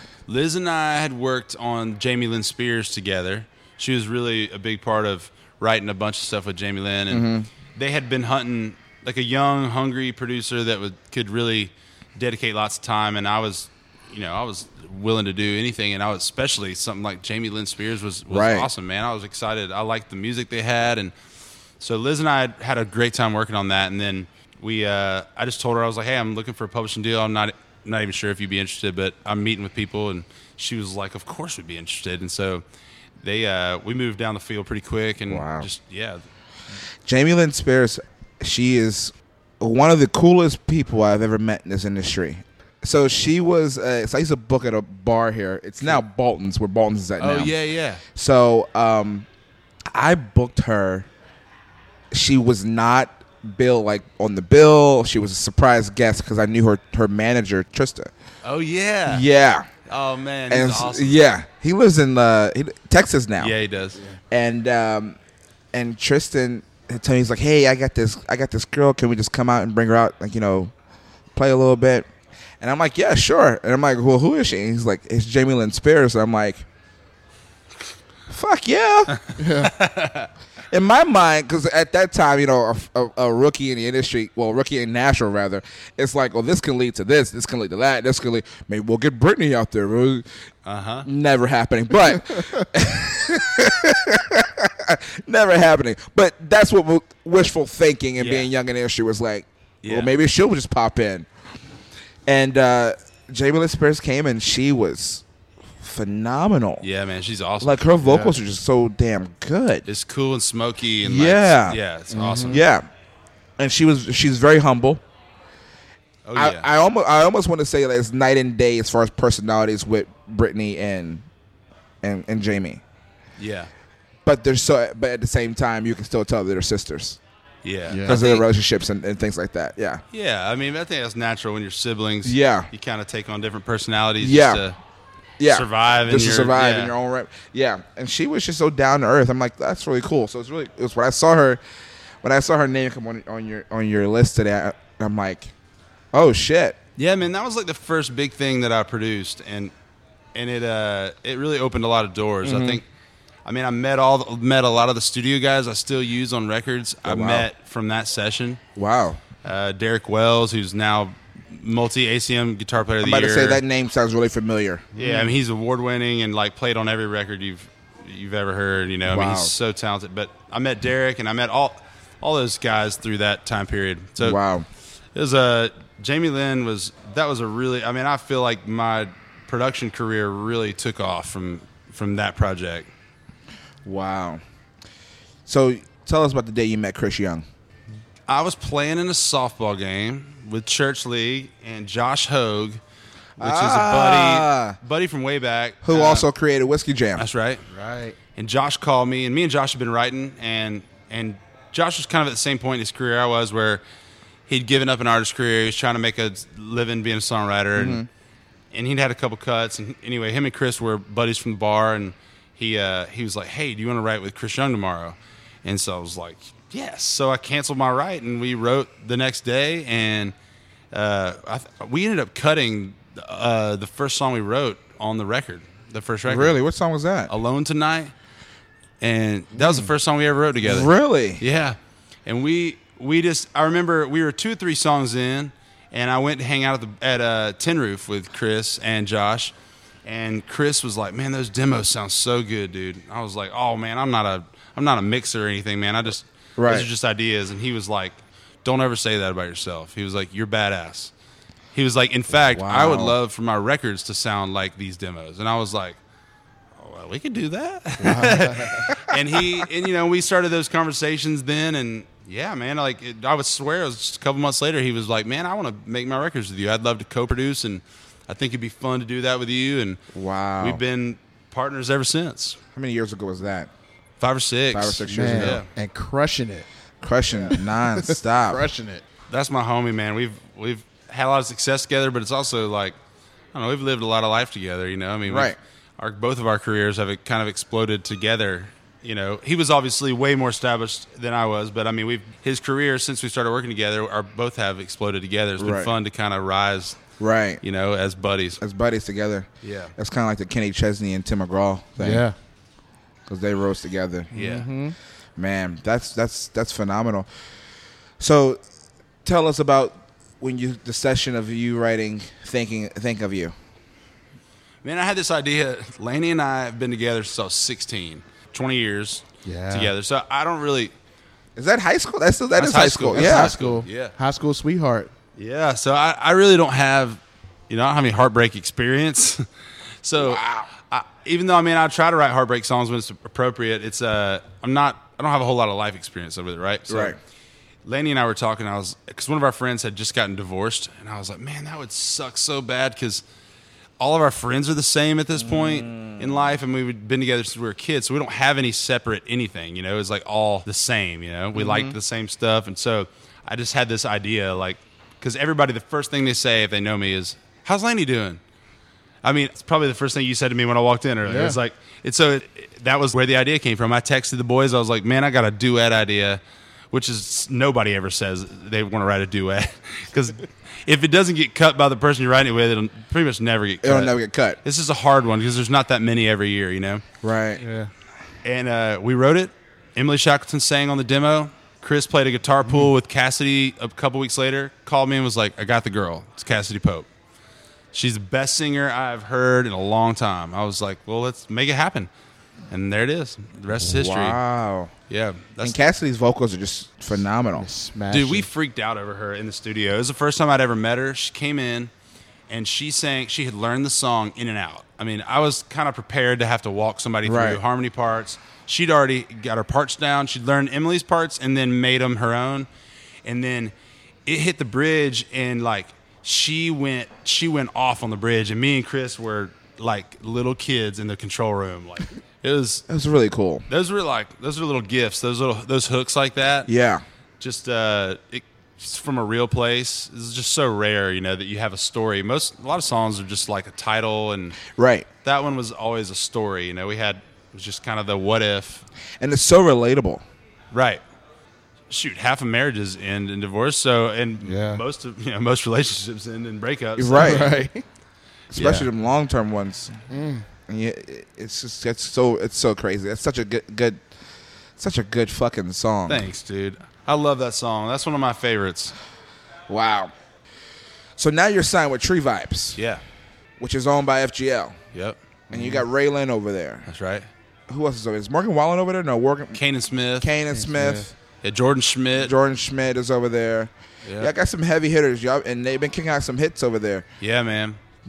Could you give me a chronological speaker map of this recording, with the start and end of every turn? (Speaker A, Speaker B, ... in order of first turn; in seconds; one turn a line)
Speaker A: 0.3-21.1
Speaker B: 7.1-7.5
Speaker B: 18.3-18.7
Speaker A: 21.8-32.6
Speaker A: 33.2-36.2
Speaker B: 35.3-35.7
Speaker B: 37.0-47.5
Speaker A: 47.2-48.0
Speaker B: 48.1-49.3
Speaker B: 49.9-51.1
Speaker B: 52.1-58.1
Speaker A: 58.4-59.2
Speaker B: 59.1-59.7
Speaker A: 59.9-61.2
Speaker B: 60.5-63.5
Speaker A: 63.4-64.0
Speaker B: 64.3-65.2
Speaker B: 65.7-70.7
Speaker B: 71.3-72.1
Speaker B: 72.6-76.6
Speaker B: 78.3-79.2
Speaker A: 79.2-80.3
Speaker C: 79.3-79.7
Speaker B: 80.7-90.2
Speaker A: 90.7-91.1
Speaker B: 91.0-101.3
Speaker A: 98.2-98.5
Speaker A: 99.8-100.1
Speaker B: 102.3-105.2
Speaker B: 105.8-106.8
Speaker A: 106.8-107.9
Speaker B: 107.6-109.8
Speaker C: 108.0-108.3
Speaker A: 109.9-112.7
Speaker B: 111.0-111.8
Speaker C: 112.1-112.6
Speaker B: 112.5-112.9
Speaker B: 113.6-115.0
Speaker A: 116.2-116.7
Speaker B: 116.3-121.2
Speaker B: 122.0-122.8
Speaker A: 123.4-123.7
Speaker B: 124.2-127.2
Speaker A: 127.6-128.4
Speaker C: 127.9-128.2
Speaker B: 128.1-130.0
Speaker A: 130.1-134.8
Speaker B: 132.2-132.7
Speaker B: 134.2-134.6
Speaker B: 135.4-141.6
Speaker A: 135.5-136.9
Speaker B: 142.2-145.5
Speaker B: 146.1-146.8
Speaker A: 147.0-149.7
Speaker A: 150.3-152.8
Speaker B: 152.4-152.8
Speaker A: 153.4-158.6
Speaker B: 157.0-157.5
Speaker B: 158.8-159.2
Speaker A: 159.4-163.6
Speaker B: 163.0-164.9
Speaker A: 164.9-174.4
Speaker C: 164.9-165.3
Speaker B: 169.1-169.5
Speaker B: 174.2-174.7
Speaker A: 175.1-182.9
Speaker B: 183.8-184.4
Speaker B: 185.5-187.4
Speaker A: 188.3-192.8
Speaker B: 193.4-194.8
Speaker A: 193.4-196.3
Speaker B: 195.8-197.2
Speaker A: 197.2-197.6
Speaker C: 197.7-198.2
Speaker A: 198.3-203.8
Speaker A: 204.5-208.0
Speaker B: 207.7-208.1
Speaker A: 208.7-220.3
Speaker A: 220.9-226.6
Speaker B: 226.2-227.3
Speaker A: 227.3-228.1
Speaker A: 229.0-239.5
Speaker B: 229.6-229.9
Speaker B: 230.6-231.4
Speaker A: 240.0-251.1
Speaker B: 246.6-246.9
Speaker A: 251.7-256.0
Speaker B: 252.5-253.2
Speaker A: 256.8-270.0
Speaker C: 258.0-258.8
Speaker B: 270.1-270.8
Speaker A: 270.6-272.6
Speaker B: 272.7-273.7
Speaker A: 274.2-275.7
Speaker B: 274.7-275.6
Speaker C: 275.1-276.7
Speaker B: 277.0-278.6
Speaker C: 277.6-279.0
Speaker A: 279.3-282.9
Speaker A: 283.5-297.0
Speaker B: 285.3-285.6
Speaker B: 295.6-295.9
Speaker B: 297.2-297.6
Speaker A: 297.6-298.6
Speaker B: 298.6-302.2
Speaker A: 299.6-299.9
Speaker C: 302.0-302.3
Speaker B: 303.2-304.3
Speaker A: 304.3-304.7
Speaker C: 304.3-304.9
Speaker B: 305.4-307.3
Speaker B: 308.2-308.6
Speaker B: 309.2-313.5
Speaker A: 314.8-320.9
Speaker C: 319.4-319.9
Speaker B: 321.6-323.6
Speaker A: 322.6-324.1
Speaker C: 323.1-325.1
Speaker A: 325.4-329.4
Speaker A: 330.0-337.2
Speaker B: 330.2-330.7
Speaker B: 336.9-337.2
Speaker A: 337.8-343.2
Speaker A: 344.0-358.4
Speaker B: 345.4-346.6
Speaker C: 351.6-351.9
Speaker A: 359.2-366.4
Speaker C: 361.2-361.6
Speaker A: 366.9-377.0
Speaker B: 373.8-374.6
Speaker B: 377.2-377.6
Speaker C: 377.6-377.9
Speaker A: 378.4-387.1
Speaker A: 387.9-392.1
Speaker A: 392.7-394.4
Speaker B: 393.8-394.9
Speaker A: 395.1-395.8
Speaker B: 395.6-397.7
Speaker C: 397.6-398.5
Speaker A: 398.1-401.9
Speaker A: 402.5-412.7
Speaker B: 407.2-407.6
Speaker A: 413.2-413.7
Speaker A: 414.2-422.8
Speaker B: 422.9-423.6
Speaker A: 423.7-426.7
Speaker B: 426.6-427.0
Speaker A: 427.4-434.6
Speaker B: 434.7-435.1
Speaker A: 435.2-438.8
Speaker B: 439.2-440.2
Speaker A: 440.7-441.0
Speaker A: 441.9-447.5
Speaker C: 444.4-444.8
Speaker B: 447.0-447.5
Speaker C: 447.1-447.8
Speaker B: 448.5-450.0
Speaker A: 448.5-448.9
Speaker C: 450.1-450.4
Speaker B: 450.7-454.0
Speaker B: 454.8-456.3
Speaker A: 456.1-458.9
Speaker B: 459.7-460.1
Speaker B: 461.2-462.8
Speaker A: 462.8-463.0
Speaker B: 463.6-464.8
Speaker C: 465.5-465.8
Speaker B: 465.5-466.9
Speaker A: 466.9-467.3
Speaker B: 467.7-469.6
Speaker A: 469.5-470.3
Speaker B: 470.2-471.1
Speaker C: 470.5-471.1
Speaker A: 471.4-472.3
Speaker B: 472.1-477.0
Speaker A: 474.1-474.3
Speaker A: 477.2-477.8